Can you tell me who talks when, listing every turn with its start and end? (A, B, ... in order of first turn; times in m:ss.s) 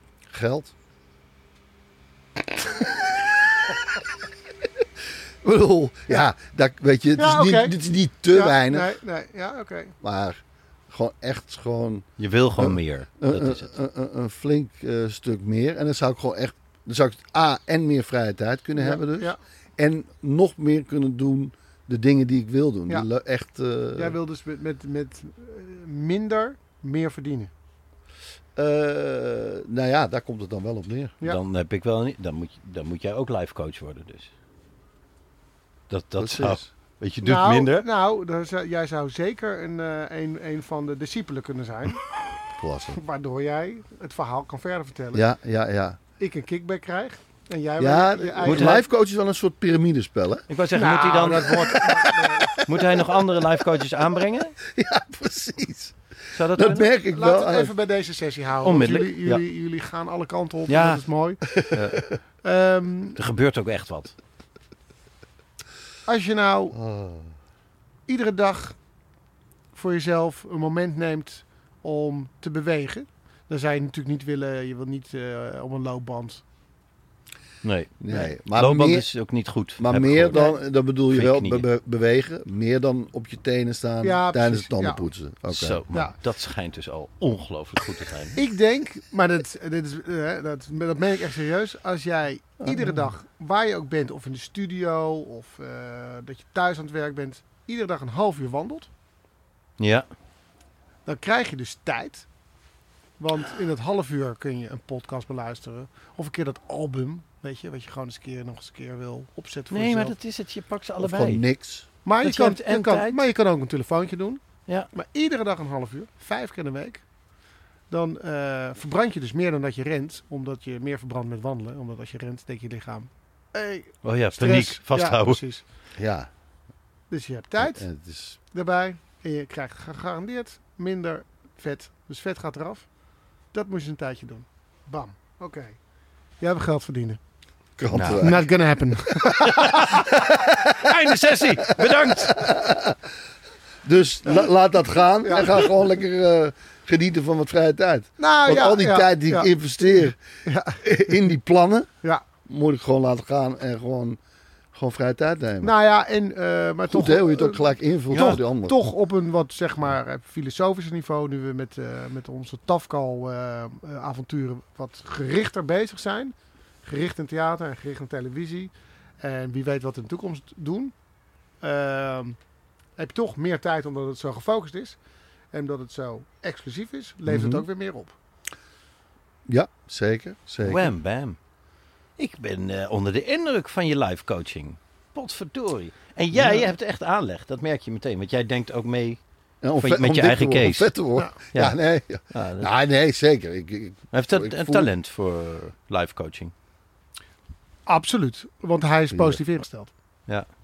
0:00.3-0:00.7 A
0:02.6-0:03.3 A
0:05.4-0:08.9 A
0:07.2-0:07.7 B
0:08.3-0:09.9 B
0:10.0-0:24.2 A
0:12.2-0:13.7 C
0:18.8-0:19.4 B
0:24.0-0:27.5 B
0:28.6-0:31.2 A
0:31.2-0:34.3 C
0:35.9-0:37.9 C
0:36.2-0:36.6 A
0:37.2-0:42.0 B
0:42.6-0:43.0 A
0:43.0-0:45.2 B
0:45.1-0:46.0 A
0:46.2-0:48.8 B
0:47.8-0:50.4 A
0:48.4-0:48.8 C
0:50.5-0:51.8 C
0:50.7-0:52.7 B
0:52.4-0:53.4 A
0:52.6-0:54.6 C
0:54.6-0:56.0 A
0:56.3-0:56.9 C
0:56.5-0:57.7 A
0:57.1-1:01.4 B
0:58.6-0:59.4 C
1:00.7-1:01.0 C
1:01.5-1:02.0 A
1:01.7-1:02.0 C
1:02.4-1:03.2 B
1:03.2-1:04.2 C
1:06.1-1:06.8 B
1:06.7-1:07.3 A
1:08.1-1:08.8 B
1:09.7-1:16.4 B
1:17.6-1:20.5 C
1:18.0-1:19.1 A
1:19.8-1:25.8 A
1:20.3-1:20.6 B
1:21.1-1:21.7 C
1:24.0-1:25.0 B
1:25.5-1:28.4 C
1:28.4-1:38.9 B
1:32.6-1:33.1 A
1:39.8-1:40.1 C
1:41.1-1:42.3 B
1:43.2-1:50.1 B
1:49.7-1:51.4 C
1:51.0-1:51.9 A
1:52.0-1:57.0 B
1:52.2-1:53.2 C
1:57.9-2:05.6 B
2:04.0-2:05.4 C
2:06.0-2:06.3 A
2:07.1-2:07.8 B
2:07.6-2:08.4 A
2:08.5-2:12.9 B
2:13.5-2:15.8 B
2:16.4-2:17.2 B
2:17.8-2:18.5 A
2:17.9-2:18.4 C
2:18.2-2:20.0 B
2:19.3-2:20.9 A
2:19.4-2:22.5 C
2:21.6-2:23.0 A
2:23.8-2:30.2 A
2:25.3-2:25.6 B
2:28.2-2:31.2 B
2:30.8-2:31.9 A
2:32.5-2:34.2 A
2:34.7-2:35.7 A
2:35.6-2:50.9 B
2:36.9-2:38.8 A
2:51.6-2:52.4 B
2:53.0-2:55.0 B
2:55.5-2:58.2 B
2:57.3-2:57.7 A
2:59.5-3:00.9 A
3:00.6-3:01.4 C
3:02.2-3:09.2 C
3:09.6-3:14.9 A
3:09.8-3:10.9 C
3:12.3-3:12.7 C
3:14.1-3:16.5 C
3:17.9-3:19.9 B
3:19.1-3:19.4 A